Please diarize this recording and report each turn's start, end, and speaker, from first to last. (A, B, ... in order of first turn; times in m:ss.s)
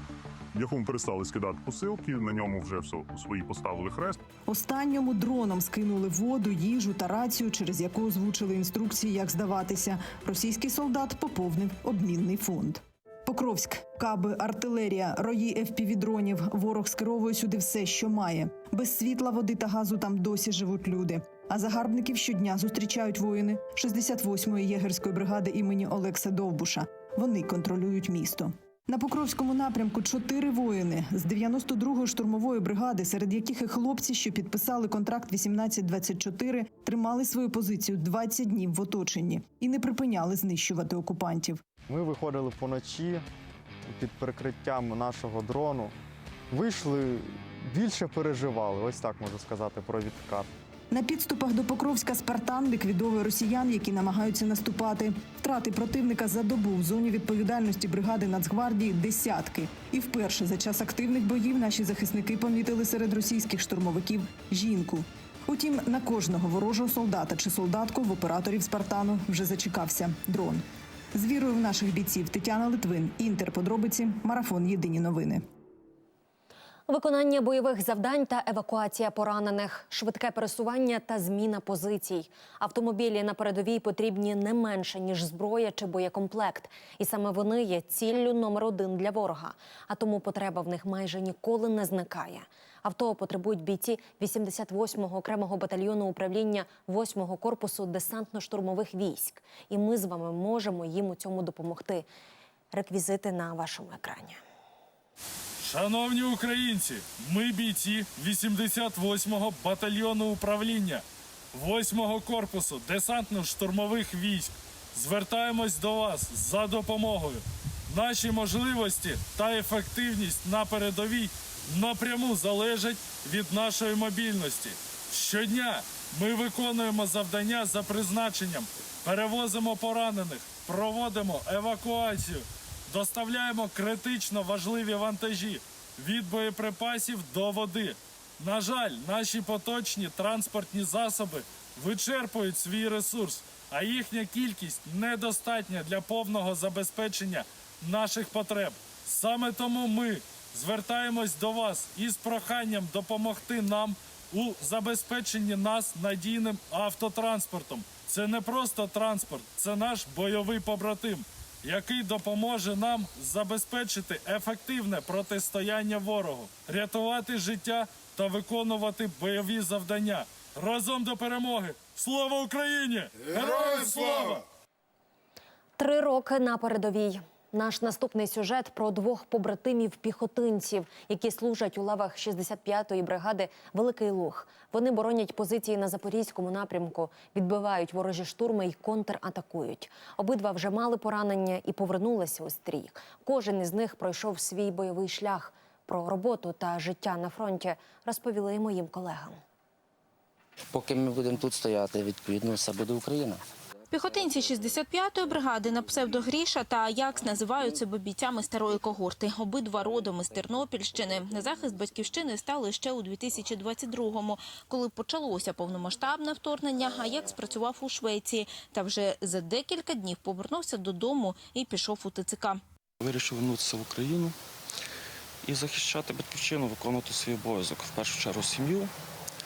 0:00.5-0:04.2 A
0:04.5-0:41.6 B
0:41.9-0:43.2 C
0:43.9-0:45.9 C
0:46.5-0:50.5 C
0:50.9-1:15.4 B
1:16.9-1:42.1 D
1:42.7-1:44.4 D
1:45.6-2:54.4 E
2:55.8-3:19.4 D
3:20.7-3:23.4 F
3:23.9-3:42.6 G
3:43.0-3:44.4 H
3:45.4-3:48.9 H